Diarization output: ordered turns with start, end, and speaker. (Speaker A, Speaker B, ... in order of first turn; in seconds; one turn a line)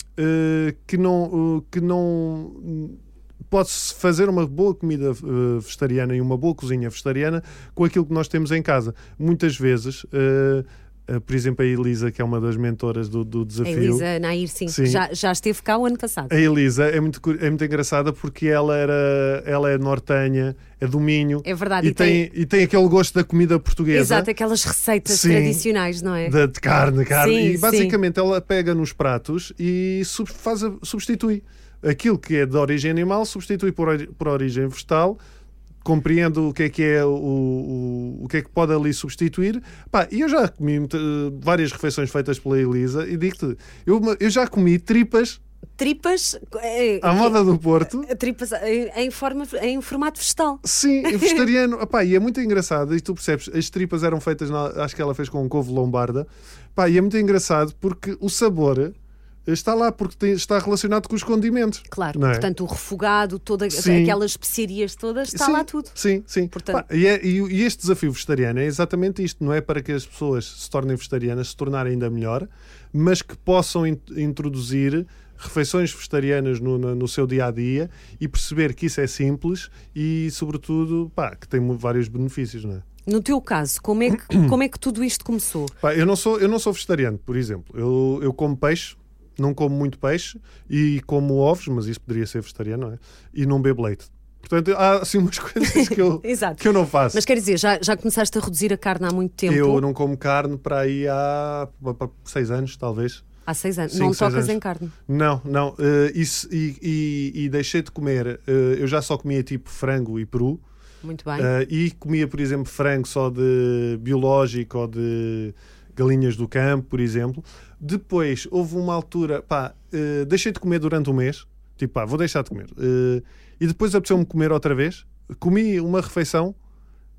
Speaker A: 0.2-14.1
Speaker B: 13.6-16.4
Speaker A: 14.7-15.0
Speaker A: 16.3-24.3
Speaker B: 21.4-22.3
Speaker B: 23.9-26.4
Speaker A: 25.1-25.6
Speaker A: 26.2-35.2
Speaker B: 27.1-28.0
Speaker A: 35.8-45.4
Speaker B: 45.8-51.5
Speaker A: 47.0-48.1
Speaker A: 50.6-58.9
Speaker A: 59.5-62.5
Speaker B: 61.9-66.0
Speaker A: 63.7-64.2
Speaker A: 65.3-82.9
Speaker B: 66.5-66.8
Speaker B: 83.1-85.7
Speaker A: 85.8-97.2
Speaker B: 95.7-99.8
Speaker A: 99.5-103.2
Speaker B: 103.5-104.9
Speaker A: 103.9-110.6
Speaker B: 111.0-111.5
Speaker A: 111.4-126.6